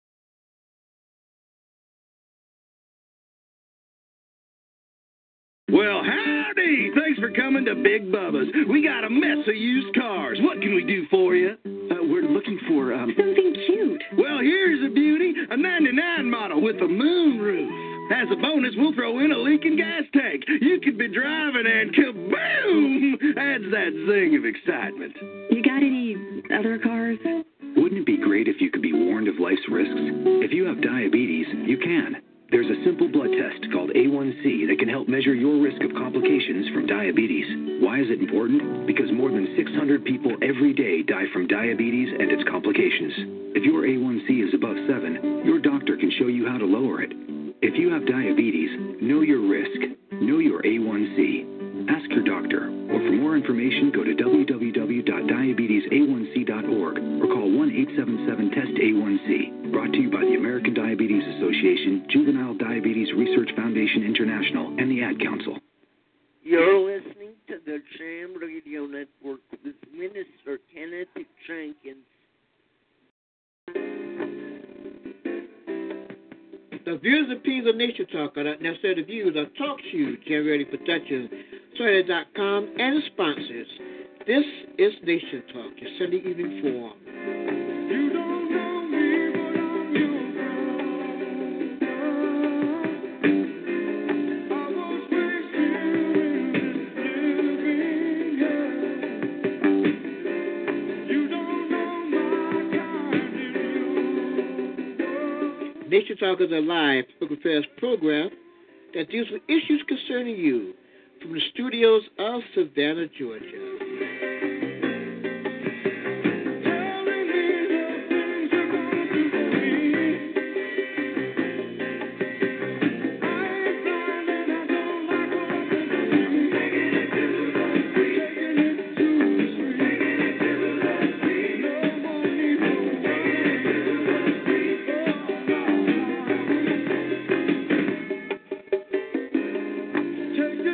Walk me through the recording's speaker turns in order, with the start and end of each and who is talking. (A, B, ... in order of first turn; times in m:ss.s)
0:05.7-0:12.8 A
0:12.5-0:13.0 B
0:13.1-0:14.1 C
0:14.2-0:25.2 A
0:25.5-0:27.3 C
0:27.7-1:05.6 B
1:06.4-1:12.1 D
1:16.8-1:27.0 E
1:45.8-1:48.3 E
1:48.9-1:53.8 E